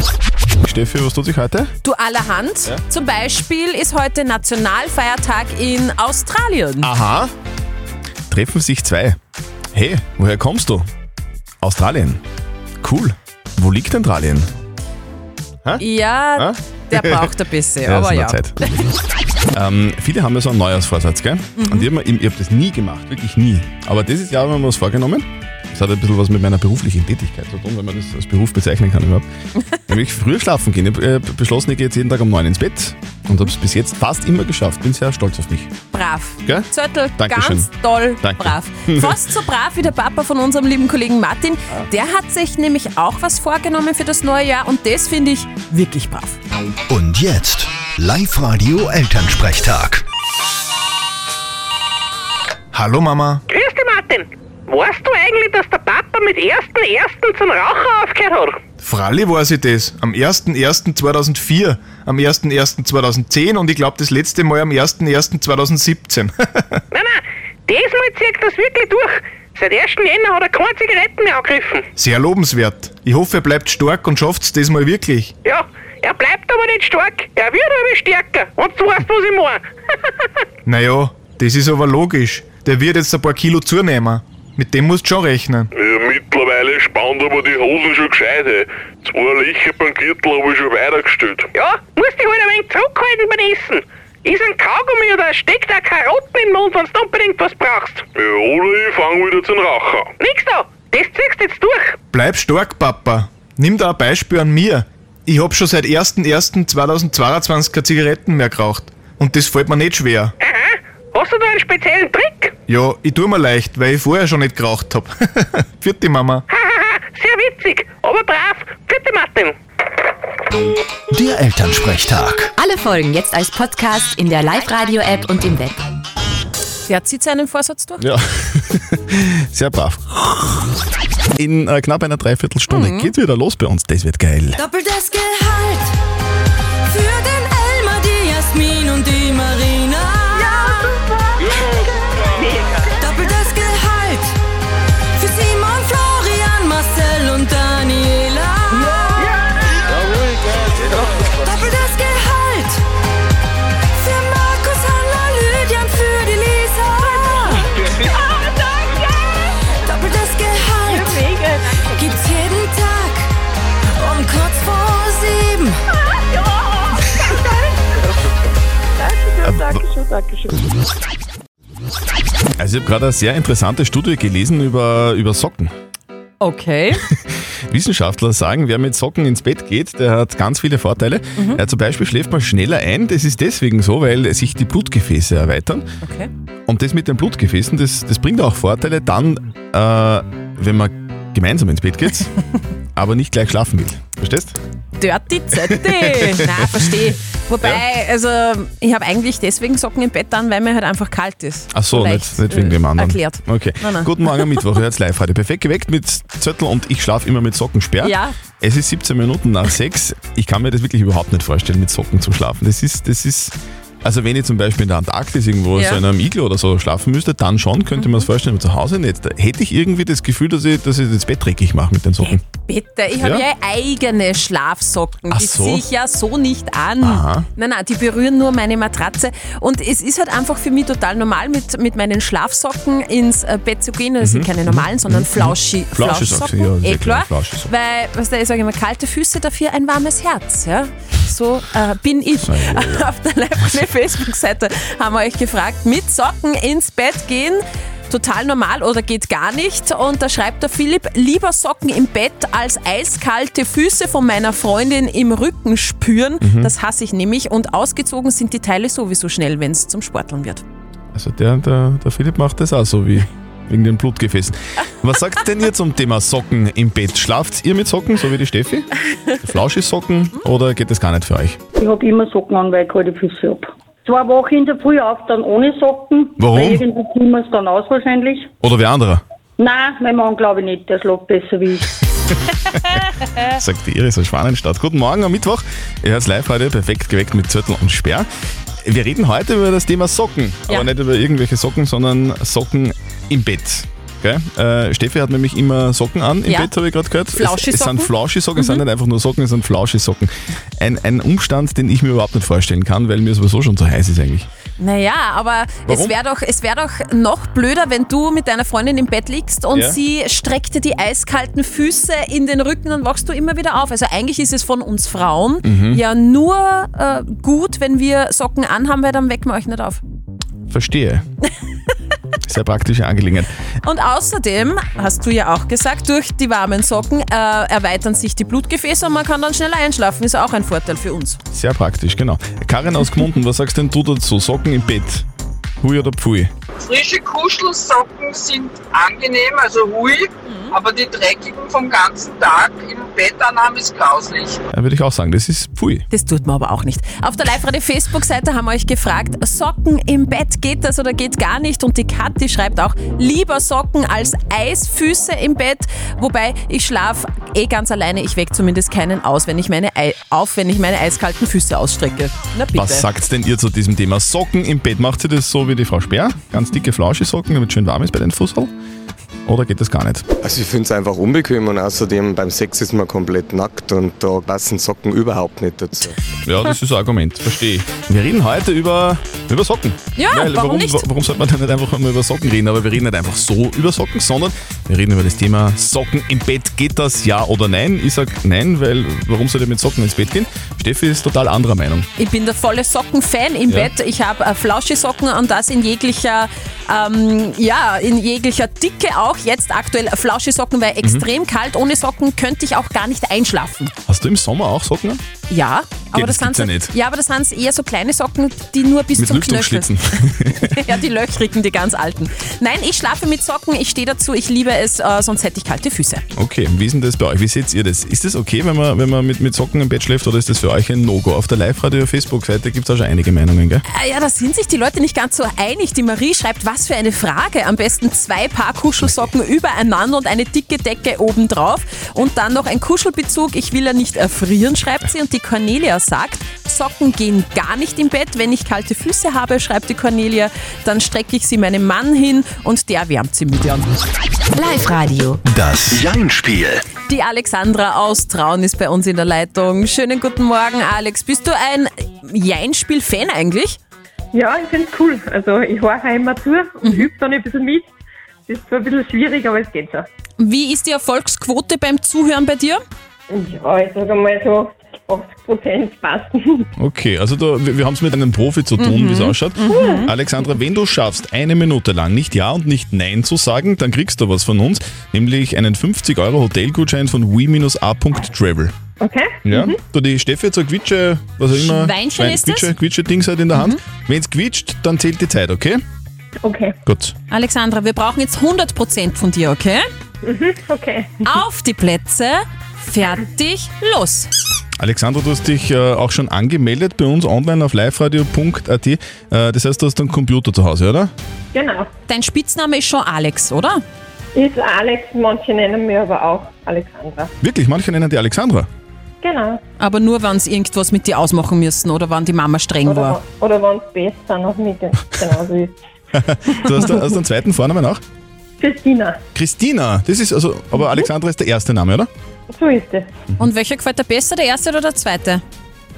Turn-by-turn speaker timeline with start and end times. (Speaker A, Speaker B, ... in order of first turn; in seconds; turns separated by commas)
Speaker A: 0.6-1.7, Speaker B: 1.8-6.9, Speaker A: 6.8-7.3, Speaker A: 8.3-9.2, Speaker A: 9.7-10.9, Speaker A: 11.6-12.2, Speaker A: 12.8-14.5, Speaker B: 15.8-18.7, Speaker A: 16.4-17.3, Speaker A: 17.8-18.5, Speaker A: 19.5-29.2, Speaker B: 21.6-21.9, Speaker A: 29.9-35.7, Speaker B: 35.9-46.4, Speaker A: 36.4-39.2, Speaker C: 46.9-50.0, Speaker D: 52.7-53.4, Speaker E: 53.5-58.5, Speaker D: 58.8-66.8, Speaker E: 66.9-71.8, Speaker D: 72.0-75.3, Speaker E: 75.4-79.6, Speaker D: 80.6-85.7, Speaker F: 85.7-91.5, Speaker E: 91.5-98.0, Speaker F: 98.1-100.1, Speaker E: 100.2-102.0, Speaker D: 102.1-110.3, Speaker E: 110.4-112.5, Speaker D: 112.7-116.4, Speaker E: 116.5-119.5, Speaker C: 121.1-122.5, Speaker G: 122.6-125.8, Speaker B: 126.9-128.0, Speaker A: 128.0-130.7, Speaker A: 131.3-134.6, Speaker B: 132.7-133.1, Speaker H: 134.6-135.9, Speaker H: 136.9-140.9, Speaker I: 140.4-141.2, Speaker I: 141.8-142.9, Speaker H: 143.0-144.3, Speaker H: 145.2-149.4, Speaker I: 149.2-149.8, Speaker H: 151.2-152.8, Speaker H: 153.9-157.6, Speaker I: 157.1-159.5, Speaker H: 159.7-161.2, Speaker I: 160.9-162.1, Speaker H: 161.9-163.3, Speaker H: 164.0-165.8, Speaker I: 166.2-166.8, Speaker I: 169.0-170.6, Speaker A: 169.4-169.8, Speaker A: 172.6-175.7, Speaker B: 176.4-177.0, Speaker A: 177.3-185.8, Speaker B: 186.0-186.3, Speaker A: 186.7-192.3, Speaker A: 192.9-194.6, Speaker B: 195.0-204.8, Speaker A: 201.7-222.4, Speaker B: 208.0-208.3, Speaker B: 215.7-216.0, Speaker B: 218.0-218.3, Speaker B: 222.2-260.6, Speaker A: 225.3-225.8, Speaker A: 227.0-227.4, Speaker A: 234.2-237.7, Speaker A: 242.4-243.1, Speaker A: 256.4-256.7, Speaker A: 261.1-268.9, Speaker A: 269.4-271.6, Speaker J: 271.8-278.5, Speaker A: 276.4-276.9, Speaker A: 278.6-279.2, Speaker J: 279.6-281.9, Speaker A: 283.4-288.3, Speaker A: 288.8-304.5, Speaker B: 297.3-298.8, Speaker B: 304.8-320.0, Speaker A: 305.9-306.1, Speaker A: 315.6-316.0, Speaker A: 320.7-321.2, Speaker A: 322.4-323.5, Speaker B: 323.8-331.4, Speaker A: 331.5-335.2, Speaker A: 335.8-336.5, Speaker K: 336.8-344.6, Speaker B: 340.4-340.7, Speaker A: 344.7-346.0, Speaker B: 346.1-363.1, Speaker A: 362.7-368.7, Speaker A: 369.4-370.2, Speaker L: 370.4-376.2, Speaker A: 376.4-392.1, Speaker B: 380.1-381.1, Speaker B: 392.2-403.9, Speaker A: 404.1-405.2, Speaker B: 405.5-416.2, Speaker A: 406.1-406.9, Speaker A: 409.2-410.8, Speaker A: 416.3-423.8, Speaker B: 423.9-443.9, Speaker G: 444.6-445.4, Speaker C: 445.4-446.8, Speaker B: 447.1-453.8, Speaker I: 454.3-457.9, Speaker B: 456.8-457.1, Speaker I: 458.5-460.1, Speaker B: 460.4-462.8, Speaker I: 463.3-466.6, Speaker A: 466.8-478.7, Speaker B: 468.8-470.1, Speaker I: 469.7-470.1, Speaker I: 479.0-479.8, Speaker A: 479.4-485.8, Speaker B: 481.5-482.7, Speaker I: 486.4-486.8, Speaker A: 486.8-487.1, Speaker B: 487.3-489.8, Speaker I: 490.2-491.2, Speaker B: 491.2-494.3, Speaker A: 494.8-501.1, Speaker I: 501.5-501.9, Speaker B: 502.1-503.8, Speaker I: 504.3-507.3, Speaker A: 507.4-508.7, Speaker I: 509.2-509.6, Speaker B: 509.8-513.2, Speaker I: 512.8-515.7, Speaker A: 516.1-518.0, Speaker I: 518.6-519.2, Speaker A: 519.3-522.1, Speaker I: 522.5-523.1, Speaker B: 523.4-525.4